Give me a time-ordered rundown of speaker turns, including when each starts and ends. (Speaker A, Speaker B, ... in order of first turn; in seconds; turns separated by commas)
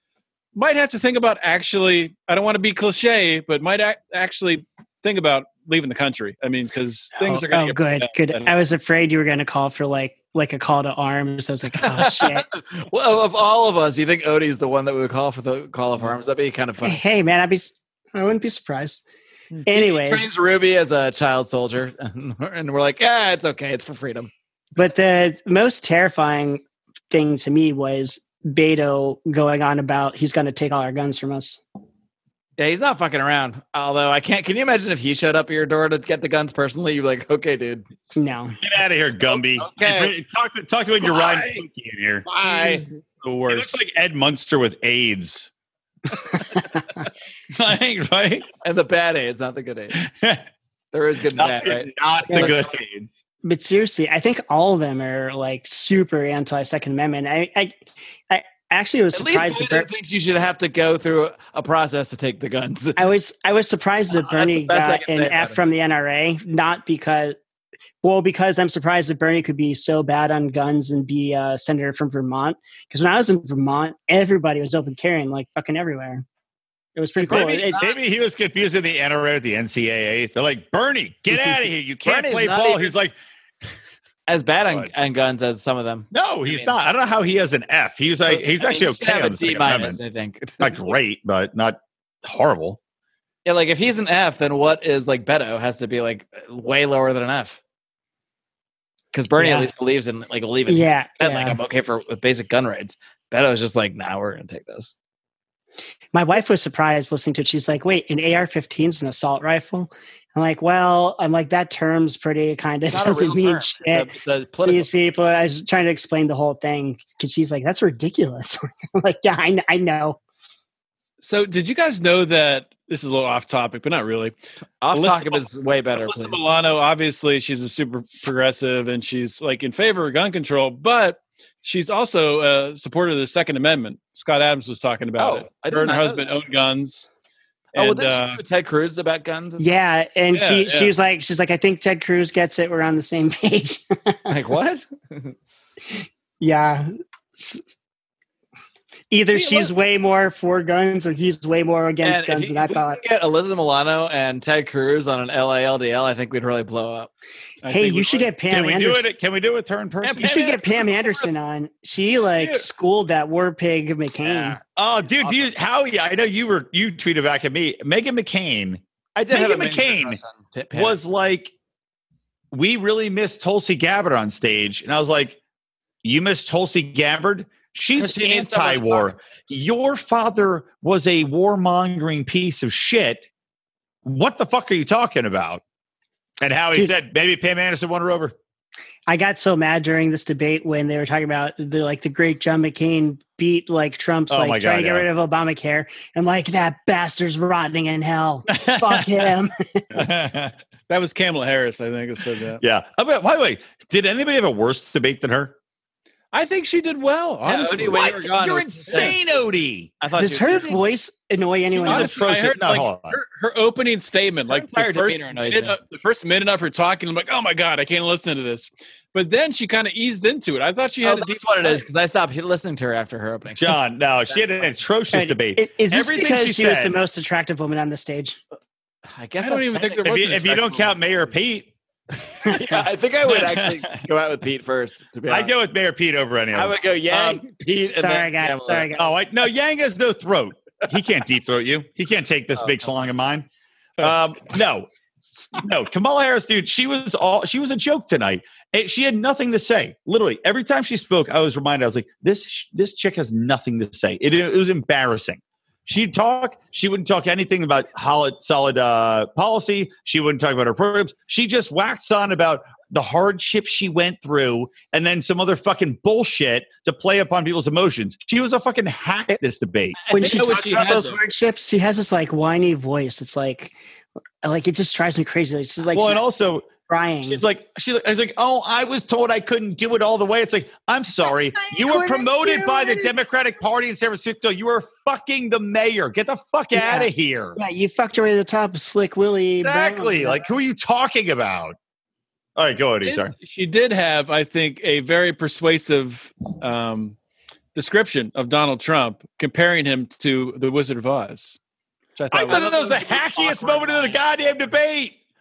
Speaker A: 0.6-8.6, Speaker B: 7.2-12.5, Speaker C: 11.8-17.0, Speaker B: 16.8-19.0, Speaker B: 19.7-20.3, Speaker C: 19.7-24.3, Speaker B: 24.8-31.6, Speaker C: 32.6-37.9, Speaker B: 38.1-38.6, Speaker D: 38.6-42.3, Speaker C: 39.3-40.1, Speaker C: 41.0-41.6, Speaker C: 42.3-43.0, Speaker A: 42.4-43.8, Speaker D: 43.5-45.5, Speaker D: 47.5-48.5, Speaker C: 48.6-50.0, Speaker D: 50.0-50.4, Speaker C: 50.9-52.6, Speaker D: 51.4-53.1, Speaker B: 52.3-52.6, Speaker B: 53.4-59.9, Speaker C: 59.1-63.0, Speaker B: 63.0-67.4, Speaker C: 64.1-65.6, Speaker B: 68.0-76.2, Speaker B: 77.0-77.9, Speaker C: 77.2-77.9, Speaker D: 77.2-83.2, Speaker C: 82.0-82.9, Speaker C: 84.3-86.7, Speaker D: 86.1-90.0, Speaker C: 88.2-90.9, Speaker D: 90.6-92.8, Speaker C: 93.5-97.6, Speaker C: 99.1-105.0, Speaker B: 99.4-99.7, Speaker B: 100.7-101.6, Speaker B: 106.1-114.1, Speaker C: 112.9-114.9, Speaker B: 114.7-120.2, Speaker A: 121.2-124.3, Speaker C: 124.8-126.5, Speaker A: 124.9-137.1, Speaker C: 135.2-136.3, Speaker C: 137.7-139.8, Speaker A: 137.8-138.4, Speaker B: 139.6-144.3, Speaker A: 140.3-140.9, Speaker C: 144.3-145.3, Speaker B: 146.4-147.7, Speaker B: 149.1-153.0, Speaker A: 149.4-149.6, Speaker C: 152.0-157.1, Speaker A: 157.6-158.3, Speaker B: 157.7-159.1, Speaker D: 158.5-160.6, Speaker C: 160.0-161.3, Speaker B: 160.2-164.6, Speaker C: 164.2-164.6, Speaker D: 164.8-170.2, Speaker C: 165.2-165.5, Speaker C: 169.2-171.0, Speaker D: 170.7-171.5, Speaker D: 172.5-175.4, Speaker D: 176.0-183.3, Speaker C: 178.0-179.1, Speaker D: 184.0-185.6, Speaker D: 186.4-188.3, Speaker B: 189.1-199.8, Speaker D: 194.3-195.1, Speaker D: 198.6-199.0, Speaker D: 199.9-200.5, Speaker A: 200.9-202.6, Speaker D: 202.6-205.6, Speaker A: 206.3-208.2, Speaker C: 207.4-209.2, Speaker D: 207.9-209.9, Speaker C: 210.0-210.8, Speaker B: 210.2-212.2, Speaker A: 211.8-221.8, Speaker D: 211.9-213.2, Speaker C: 214.5-215.8, Speaker C: 221.0-223.7, Speaker D: 223.6-227.0, Speaker C: 224.3-224.7, Speaker B: 225.1-228.4, Speaker C: 229.1-230.1, Speaker A: 229.4-231.0, Speaker D: 230.0-231.7, Speaker C: 232.4-235.5, Speaker B: 232.5-232.8, Speaker D: 233.3-233.8, Speaker D: 235.3-237.4, Speaker C: 236.5-238.9, Speaker B: 237.9-239.2, Speaker D: 239.0-244.9, Speaker D: 245.5-270.0, Speaker C: 270.0-271.1, Speaker B: 270.1-273.8, Speaker A: 270.2-271.2, Speaker B: 274.4-276.2, Speaker D: 275.9-276.7, Speaker B: 276.9-277.4, Speaker D: 277.3-287.6, Speaker B: 281.7-283.1, Speaker B: 286.7-290.5, Speaker D: 289.6-291.8, Speaker D: 292.6-293.3, Speaker A: 293.0-297.2, Speaker A: 297.8-301.6, Speaker A: 302.2-304.1, Speaker D: 302.3-305.2, Speaker C: 302.4-304.1